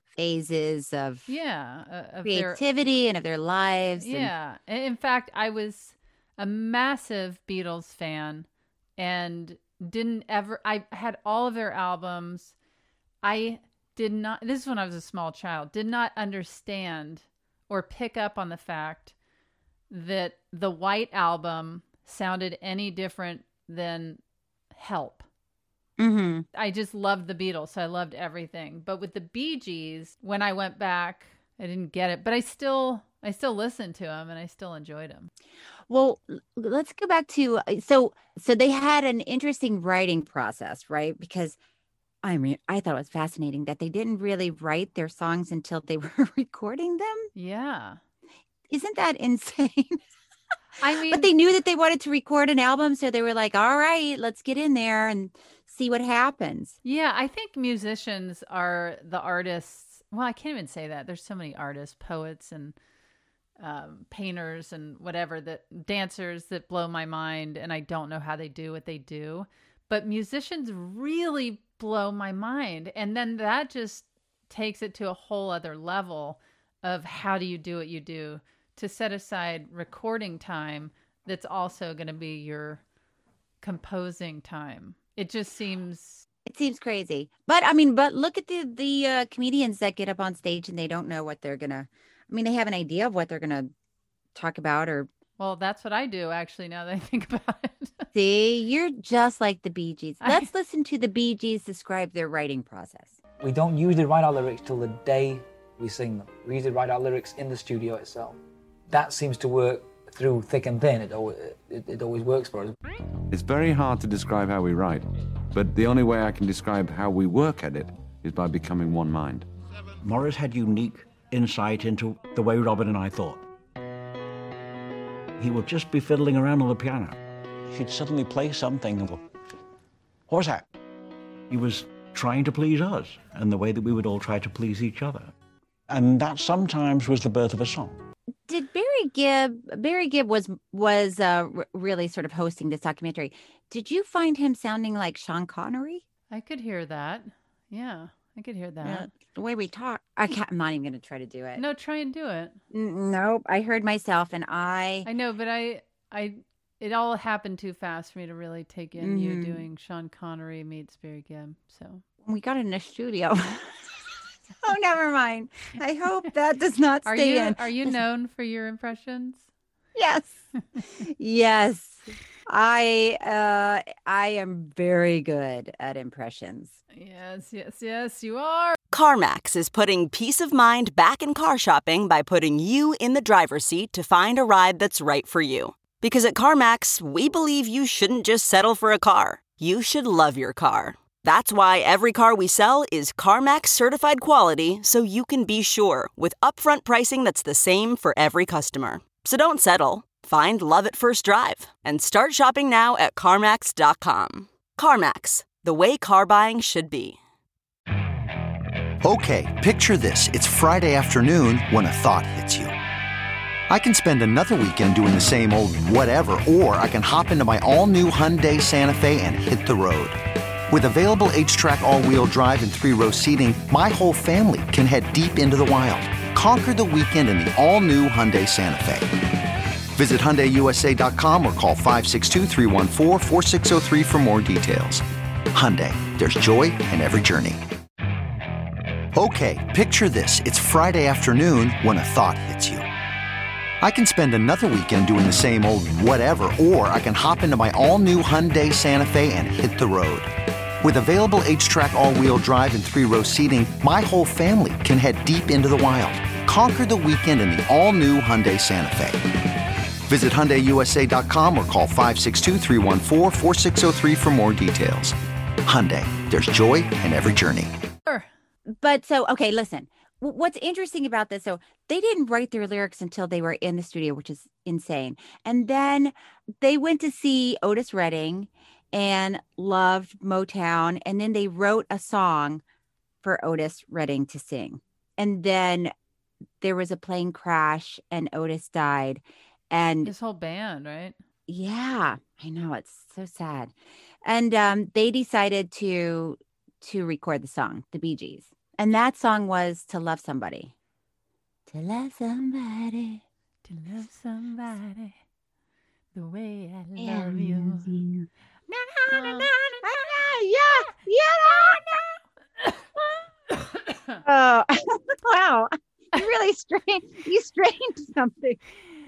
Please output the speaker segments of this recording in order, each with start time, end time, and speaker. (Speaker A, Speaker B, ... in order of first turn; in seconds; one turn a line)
Speaker A: 0.2-1.4
Speaker B: 1.3-2.6
Speaker A: 2.2-4.3
Speaker B: 4.0-12.6
Speaker B: 13.2-19.1
Speaker B: 19.9-24.2
Speaker B: 24.7-25.3
Speaker A: 26.0-26.5
Speaker B: 26.6-35.3
Speaker A: 35.9-41.6
Speaker A: 42.2-47.3
Speaker B: 47.4-48.0
Speaker A: 48.7-50.0
Speaker B: 50.8-51.3
Speaker A: 50.9-56.8
Speaker B: 56.8-62.8
Speaker B: 63.6-82.8
Speaker B: 83.6-86.2
Speaker A: 86.5-93.7
Speaker A: 94.3-95.1
Speaker B: 95.4-98.1
Speaker A: 98.1-103.2
Speaker B: 100.2-100.5
Speaker C: 103.4-108.4
Speaker C: 108.9-112.7
Speaker D: 113.3-119.5
Speaker E: 120.0-123.5
Speaker E: 125.4-127.2
Speaker E: 127.7-129.2
Speaker E: 130.3-130.7
Speaker E: 131.5-135.3
Speaker E: 135.9-138.0
Speaker A: 138.5-146.0
Speaker B: 146.3-149.1
Speaker A: 148.8-151.6
Speaker B: 151.6-152.6
Speaker A: 152.7-155.1
Speaker B: 155.1-162.0
Speaker A: 159.0-159.6
Speaker A: 162.2-163.9
Speaker A: 164.6-168.0
Speaker B: 167.1-169.5
Speaker A: 169.9-170.4
Speaker A: 171.0-176.8
Speaker B: 176.9-178.8
Speaker F: 178.9-207.2
Speaker G: 209.0-212.7
Speaker G: 213.7-220.2
Speaker G: 220.7-229.1
Speaker G: 230.0-235.0
Speaker G: 235.5-237.6
Speaker G: 239.2-242.8
Speaker G: 243.8-250.3
Speaker G: 250.8-259.2
Speaker G: 260.1-265.1
Speaker G: 265.7-267.7
Speaker A: 268.7-282.6
Speaker A: 283.2-285.9
Speaker A: 286.6-290.1
Speaker B: 290.0-291.2
Speaker A: 291.5-293.7
Speaker A: 294.2-300.7
Speaker A: 301.7-303.2
Speaker B: 303.6-305.2
Speaker B: 306.1-307.9
Speaker A: 307.0-312.1
Speaker B: 309.1-309.8
Speaker B: 313.6-314.2
Speaker A: 314.2-318.6